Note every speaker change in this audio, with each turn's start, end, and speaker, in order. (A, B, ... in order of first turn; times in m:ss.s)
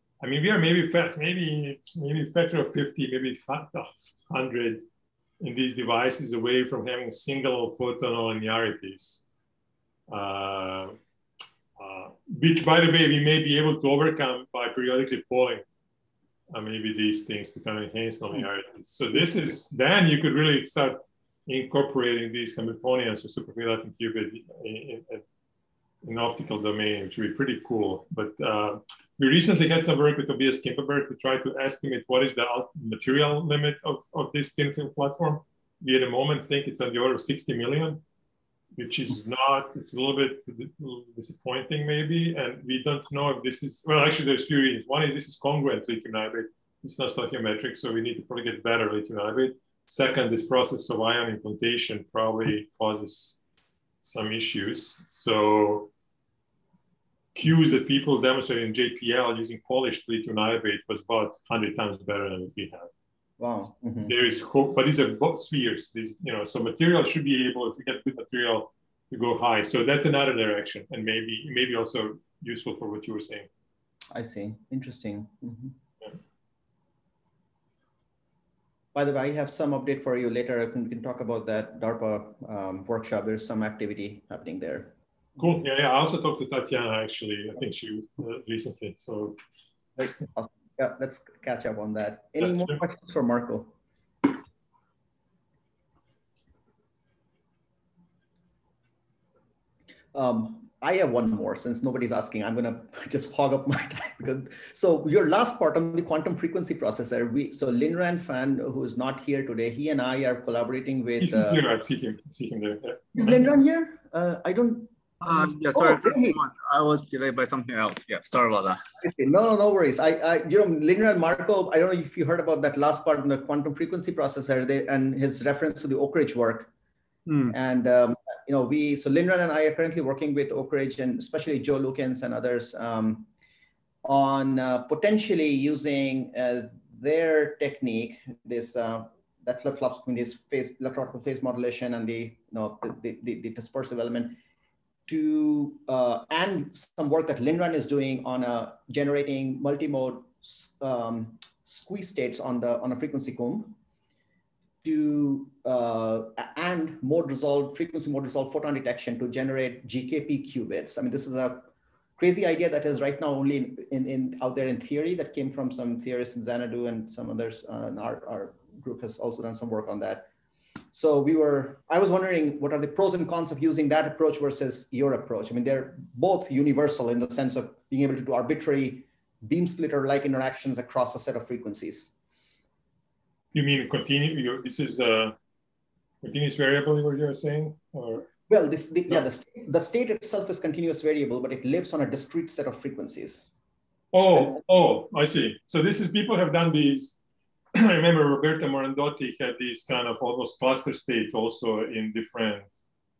0:00.2-0:04.8 A
0:05.4-0:09.2 A
0:10.1-0:11.0 A
0:11.8-0:15.6 A
0:16.5-0:25.2 A
0:26.0-0:38.0 A
0:38.8-0:53.4 A
0:54.0-0:55.9 A
0:57.4-1:02.9 A
1:03.4-1:04.2 B
1:04.1-1:13.5 A
1:14.1-1:15.8 B
1:18.9-1:25.0 B
1:25.4-1:29.4 A
1:30.0-1:33.7 B
1:40.1-1:51.6 B
1:51.2-1:53.4 A
1:53.2-1:56.4 B
1:55.2-1:58.8 C
1:59.0-2:06.7 B
2:07.5-2:13.3 B
2:14.0-2:24.4 B
2:25.1-2:33.8 B
2:34.8-2:50.3 B
2:50.9-3:02.1 B
3:03.5-3:05.4 A
3:06.2-3:08.3 A
3:08.5-3:13.5 B
3:14.1-3:17.2 A
3:17.7-3:22.7 A